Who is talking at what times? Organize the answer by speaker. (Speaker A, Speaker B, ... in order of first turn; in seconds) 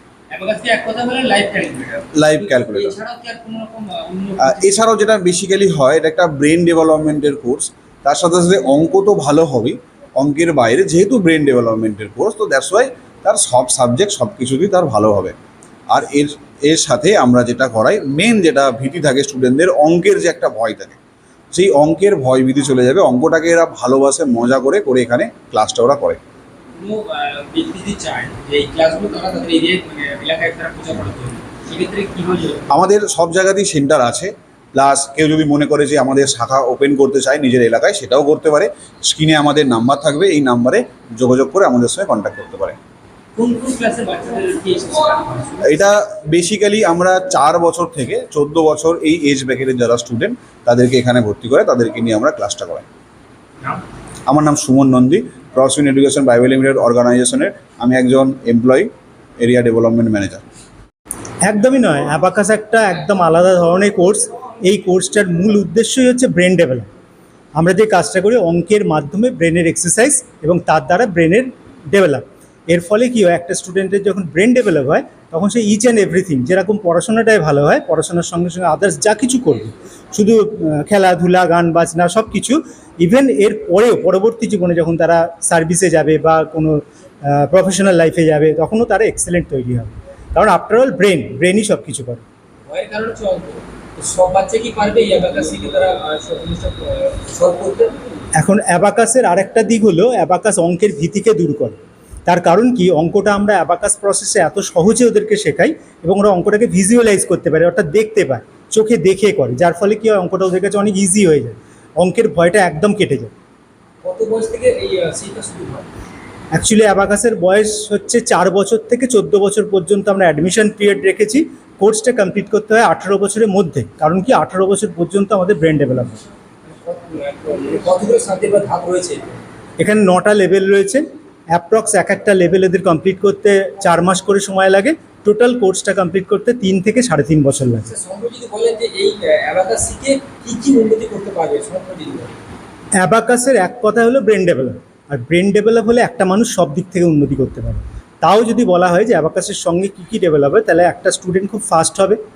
Speaker A: 0.3-4.8, 26.8-32.6, 43.4-45.9, 92.7-98.0, 114.0-115.9, 126.7-129.4, 137.8-142.3
Speaker B: 2.1-3.0, 4.4-15.3, 15.9-21.0, 21.5-26.2, 32.7-42.8, 45.6-52.9, 54.3-60.5
Speaker C: 61.4-66.9, 67.5-92.2, 98.4-113.3, 116.5-126.2, 129.8-137.9, 143.0-152.2